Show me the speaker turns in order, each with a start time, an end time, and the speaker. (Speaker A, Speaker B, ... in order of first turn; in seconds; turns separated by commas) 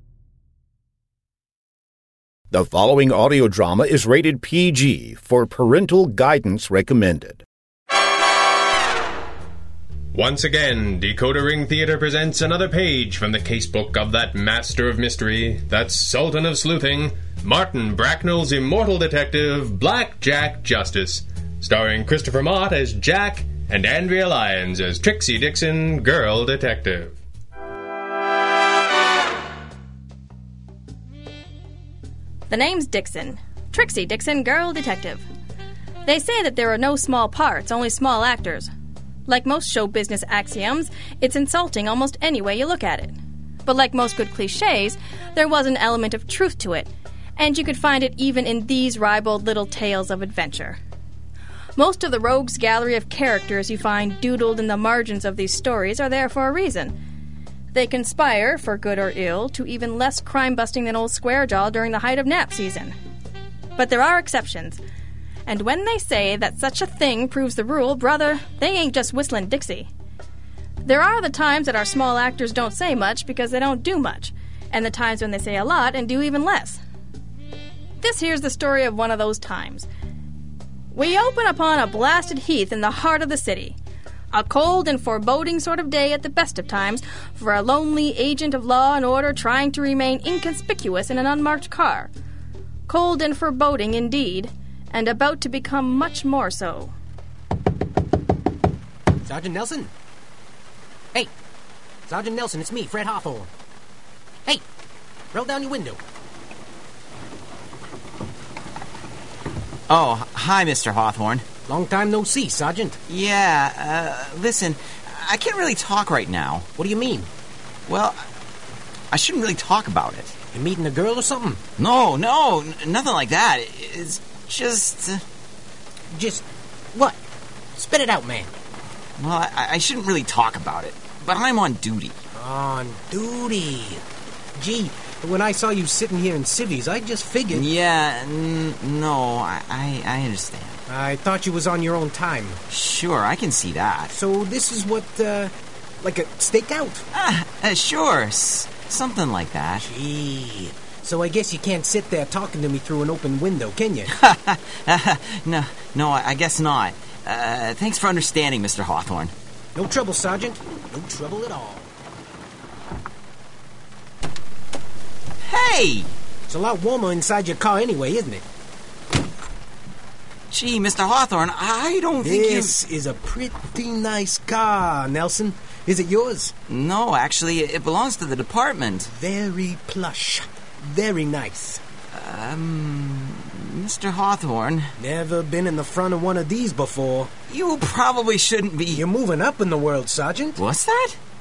Speaker A: 2.5-7.4, Speaker B: 10.1-27.2, Speaker C: 32.5-35.2, Speaker C: 36.0-38.7, Speaker C: 39.3-50.8, Speaker C: 51.8-57.0, Speaker C: 57.7-62.9, Speaker C: 63.8-64.8, Speaker C: 65.5-69.9, Speaker C: 70.8-76.8, Speaker C: 78.0-79.9, Speaker C: 80.9-83.8, Speaker C: 84.3-92.1, Speaker C: 92.9-96.9, Speaker D: 99.2-99.9, Speaker D: 102.1-103.5, Speaker D: 105.3-106.0, Speaker E: 109.9-111.4, Speaker D: 111.7-113.0, Speaker E: 113.1-116.7, Speaker D: 116.8-117.3, Speaker E: 117.9-118.2, Speaker E: 119.1-120.3, Speaker D: 120.5-121.6, Speaker E: 121.8-125.2, Speaker D: 126.1-127.2, Speaker D: 127.7-128.5, Speaker E: 129.2-132.2, Speaker D: 132.3-134.0, Speaker D: 134.6-137.7, Speaker E: 137.5-140.8, Speaker D: 140.9-142.6, Speaker E: 142.7-144.1, Speaker D: 144.1-147.1, Speaker E: 147.1-149.9, Speaker D: 149.8-154.1, Speaker E: 154.1-159.3, Speaker D: 159.7-161.9, Speaker E: 165.4-166.1, Speaker D: 166.5-168.4, Speaker E: 170.5-172.8, Speaker D: 172.2-176.5, Speaker E: 176.7-179.1, Speaker D: 179.0-181.8, Speaker E: 182.1-184.9, Speaker D: 185.0-187.3, Speaker E: 187.5-189.0, Speaker D: 188.9-190.6, Speaker E: 190.6-191.2